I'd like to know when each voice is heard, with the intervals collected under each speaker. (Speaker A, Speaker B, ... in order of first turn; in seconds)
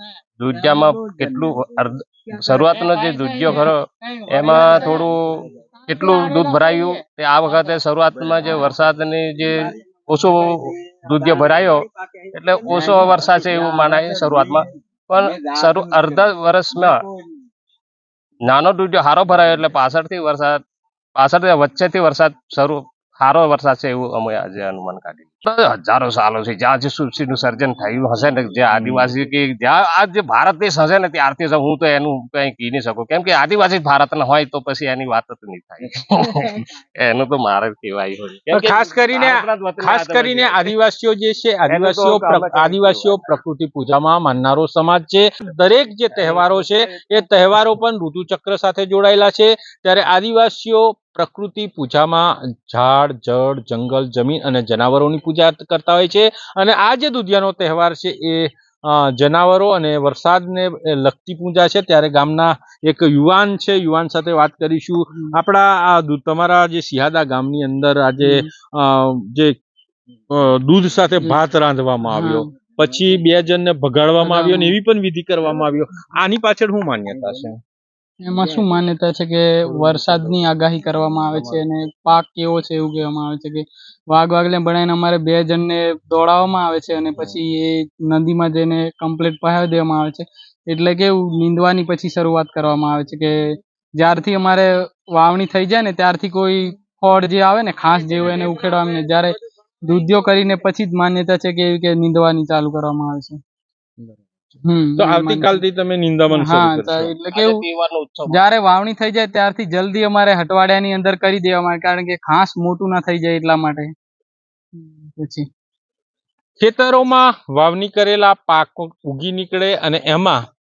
Speaker A: 0.4-17.0, 18.4-20.6, 21.2-40.7, 41.7-43.3, 46.3-47.3, 107.3-108.4
Speaker B: 28.8-29.1, 38.5-69.6, 70.3-77.6, 105.0-107.1, 116.6-120.4
Speaker C: 68.2-68.5, 72.1-72.5, 74.2-74.8, 78.2-103.4, 104.7-105.6, 106.3-107.7, 108.3-113.9, 114.8-115.5